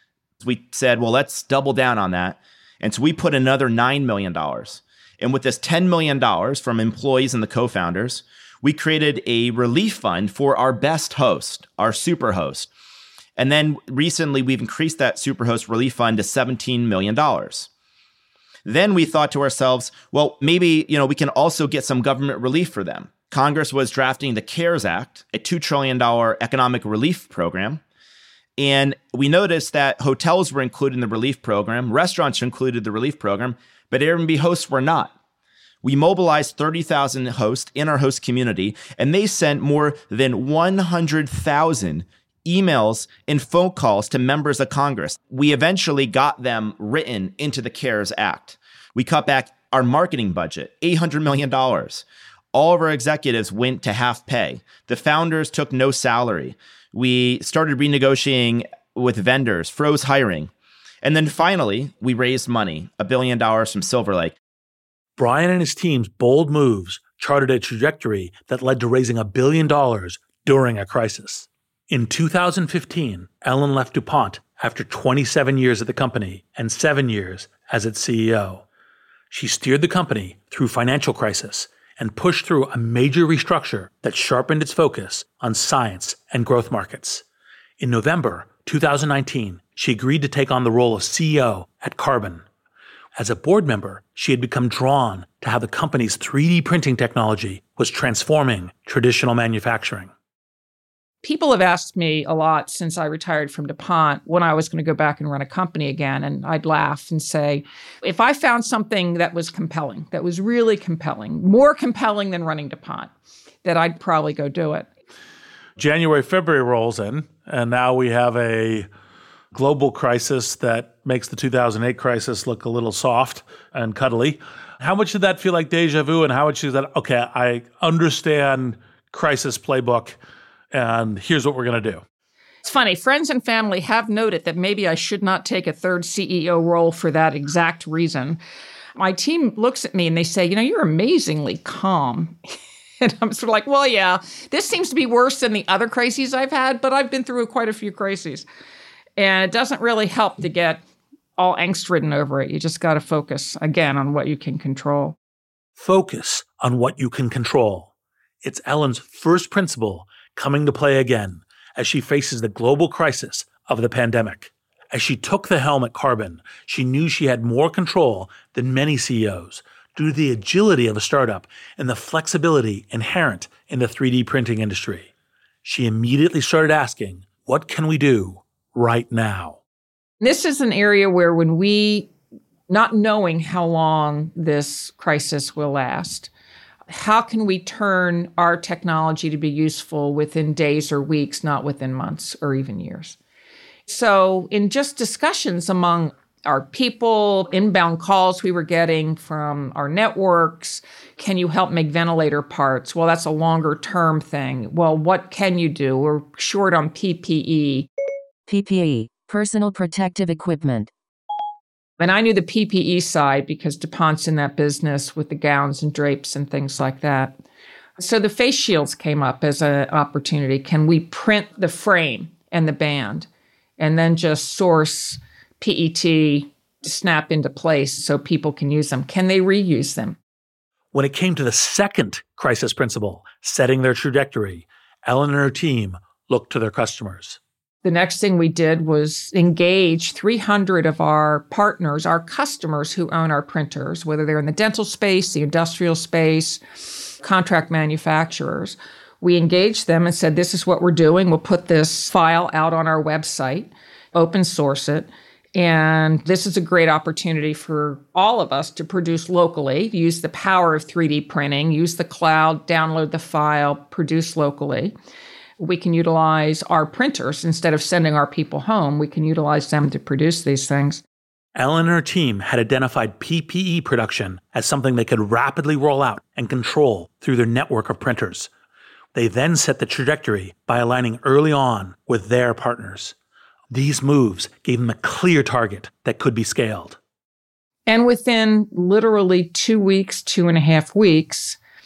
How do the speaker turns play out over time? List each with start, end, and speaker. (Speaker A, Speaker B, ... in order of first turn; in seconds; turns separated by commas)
Speaker A: 0.4-12.7, Speaker A: 13.4-17.7, Speaker A: 18.7-27.8, Speaker A: 28.6-35.1, Speaker A: 35.8-60.5, Speaker A: 61.0-64.4, Speaker B: 65.2-78.7, Speaker B: 79.3-87.2, Speaker B: 87.8-92.4, Speaker B: 93.2-100.1, Speaker C: 101.2-113.1, Speaker C: 113.6-114.9, Speaker B: 115.8-118.9, Speaker B: 119.5-130.2, Speaker B: 130.7-132.0, Speaker C: 132.6-138.4, Speaker C: 139.0-142.4, Speaker C: 143.0-148.5, Speaker C: 149.2-150.8, Speaker C: 151.4-155.2, Speaker B: 155.8-157.9, Speaker B: 158.4-175.1, Speaker B: 175.6-179.6, Speaker C: 180.2-182.1, Speaker C: 182.7-186.3, Speaker C: 186.9-193.2, Speaker C: 193.9-207.9, Speaker D: 208.5-210.9, Speaker C: 212.0-217.4, Speaker C: 218.0-223.3, Speaker C: 223.8-230.2, Speaker B: 230.9-237.4, Speaker C: 237.8-264.9, Speaker C: 265.6-271.0, Speaker B: 271.6-278.5, Speaker B: 279.1-283.1, Speaker B: 283.7-287.0, Speaker C: 287.9-291.6